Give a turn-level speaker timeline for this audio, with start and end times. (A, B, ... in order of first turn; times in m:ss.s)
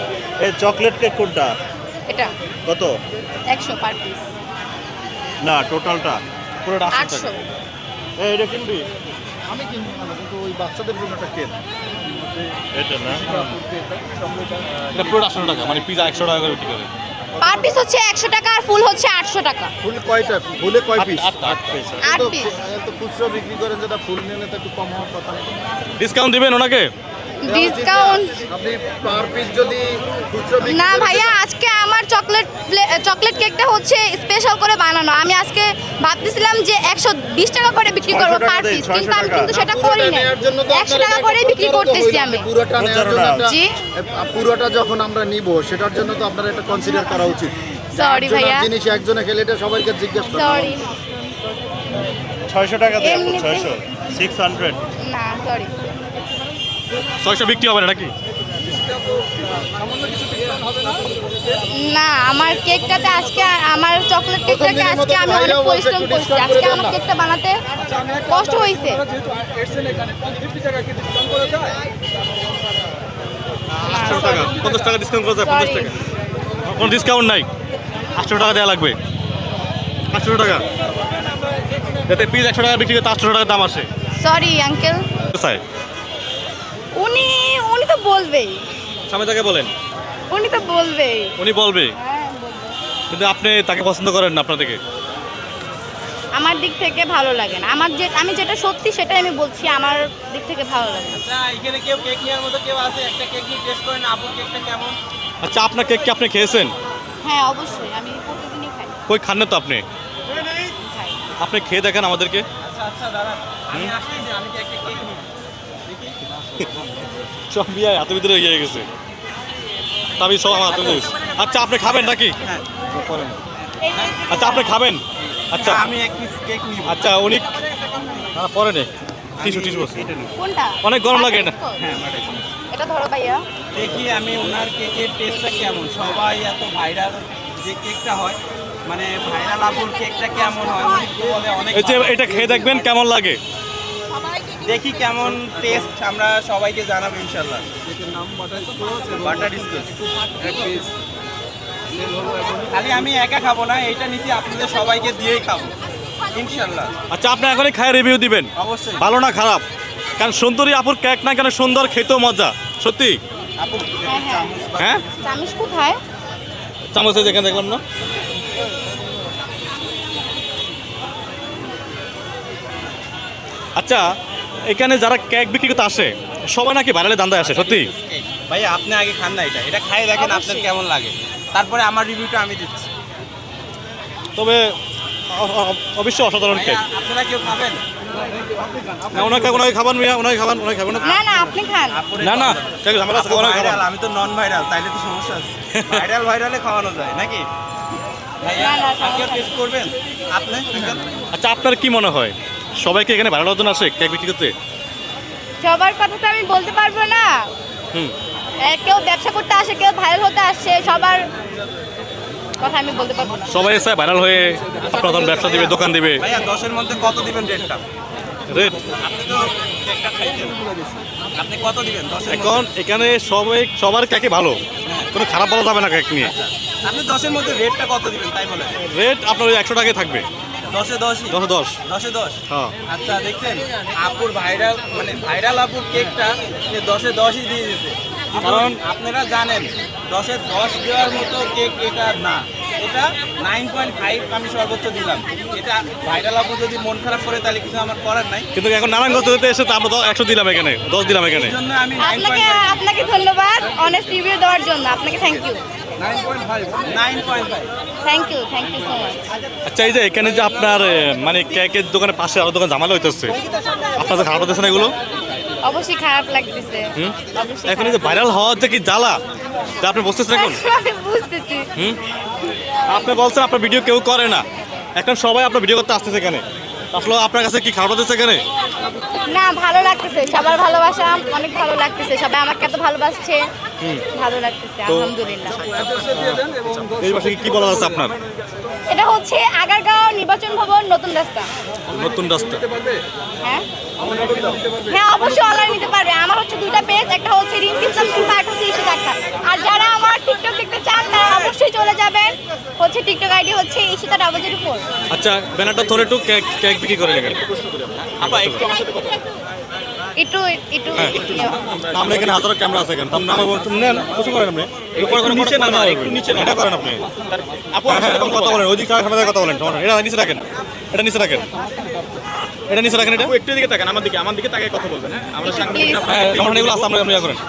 0:00.4-0:01.5 A
0:02.7-0:02.9 A
0:03.5-0:04.3 B
0:05.4-0:06.2 A
0:06.6-0:07.3 C
0:06.9-0:07.4 B
0:08.2-0:08.8 A
0:09.5-0:11.6 D
0:12.7-0:13.4 A
0:14.9-0:16.9 C
0:17.4-0:19.7 B
0:19.8-0:21.3 D
0:21.0-0:21.8 C
0:21.5-0:21.8 A
0:22.0-0:25.7 D
0:22.0-0:22.6 B
0:26.0-0:26.9 C
0:27.4-0:28.3 B
0:27.4-0:31.4 D
0:30.6-0:42.5 B
0:38.1-0:39.5 A
0:39.5-0:50.8 D
0:42.8-0:43.4 A
0:43.4-0:43.7 B
0:47.9-0:48.7 B
0:50.2-0:50.9 B
0:52.5-0:54.8 A
0:53.0-0:53.8 B
0:55.1-0:55.7 B
0:57.2-0:58.1 C
0:58.7-1:01.3 E
1:01.7-1:07.6 B
1:04.4-1:07.0 D
1:07.8-1:11.7 E
1:08.2-1:09.0 B
1:13.7-1:16.0 C
1:13.8-1:14.6 B
1:15.4-1:15.9 B
1:16.6-1:17.4 C
1:18.2-1:19.0 C
1:20.1-1:20.6 C
1:22.1-1:23.9 C
1:24.2-1:25.1 B
1:25.3-1:25.6 C
1:27.0-1:28.6 B
1:29.1-1:29.7 C
1:30.3-1:31.3 B
1:31.4-1:31.9 C
1:31.9-1:32.8 B
1:33.1-1:34.8 C
1:36.3-1:41.2 B
1:41.1-1:45.0 F
1:45.4-1:46.7 C
1:47.2-1:49.0 B
1:49.1-1:49.8 C
1:50.6-1:51.2 B
1:51.4-1:52.4 C
1:52.6-1:55.2 F
1:55.8-1:56.2 F
1:57.5-1:58.8 C
2:00.2-2:02.3 C
2:01.8-2:02.6 F
2:02.9-2:03.4 C
2:03.8-2:04.7 B
2:03.9-2:04.2 F
2:04.3-2:05.8 C
2:05.5-2:07.0 F
2:06.8-2:07.4 C
2:08.3-2:08.9 C
2:09.4-2:10.3 F
2:09.4-2:10.0 C
2:10.4-2:11.8 B
2:10.8-2:11.5 C
2:11.8-2:12.5 F
2:12.7-2:13.4 B
2:13.7-2:22.4 F
2:21.7-2:23.4 C
2:24.6-2:27.7 F
2:29.0-2:30.8 F
2:32.2-2:35.7 F
2:36.3-2:36.9 F
2:37.1-2:39.6 C
2:38.6-2:39.0 F
2:40.2-2:43.2 C
2:43.6-2:45.1 F
2:44.0-2:44.5 B
2:44.8-2:45.0 C
2:45.2-2:46.0 B
2:46.9-2:47.8 C
2:53.8-2:54.0 C
2:54.7-2:57.9 C
2:57.4-3:02.9 F
3:00.1-3:00.7 B
3:04.4-3:04.7 C
3:05.3-3:06.8 C
3:06.5-3:07.8 F
3:09.1-3:11.2 C
3:11.0-3:12.0 B
3:11.8-3:17.5 F
3:12.2-3:13.9 C
3:15.7-3:16.0 C
3:18.4-3:21.1 F
3:18.6-3:19.5 B
3:21.3-3:24.5 C
3:25.6-3:27.5 B
3:28.6-3:31.2 B
3:32.6-3:33.5 B
3:33.5-3:36.2 C
3:35.0-3:37.8 F
3:38.5-3:38.8 C
3:39.0-3:40.6 F
3:41.3-3:42.6 F
3:42.3-3:44.6 C
3:45.1-3:46.3 C
3:46.2-3:48.8 F
3:48.8-3:50.2 C
3:50.7-4:08.5 F
3:51.3-3:51.8 C
3:52.5-3:52.7 C
3:58.4-3:58.8 C
4:08.5-4:11.6 C
4:11.3-4:12.8 F
4:12.0-4:15.6 B
4:16.0-4:17.7 F
4:18.0-4:19.2 B
4:19.6-4:23.3 C
4:24.0-4:24.9 C
4:25.6-4:28.2 B
4:27.6-4:29.2 C
4:29.8-4:30.6 C
4:30.3-4:31.7 B
4:32.9-4:34.4 C
4:35.0-4:38.4 C
4:39.2-4:43.4 B
4:44.1-4:45.6 B
4:44.9-4:45.1 C
4:45.8-4:48.1 C
4:48.9-4:51.5 B
4:51.9-4:52.6 C
4:54.8-5:04.8 B
5:05.1-5:07.4 C
5:07.3-5:09.2 E
5:08.2-5:08.6 C
5:10.2-5:11.6 B
5:11.2-5:12.4 E
5:11.9-5:17.0 C
5:15.0-5:16.6 E
5:17.1-5:18.6 E
5:17.8-5:21.4 C
5:22.7-5:23.3 C
5:23.2-5:26.9 E
5:25.4-5:26.2 B
5:26.0-5:27.4 C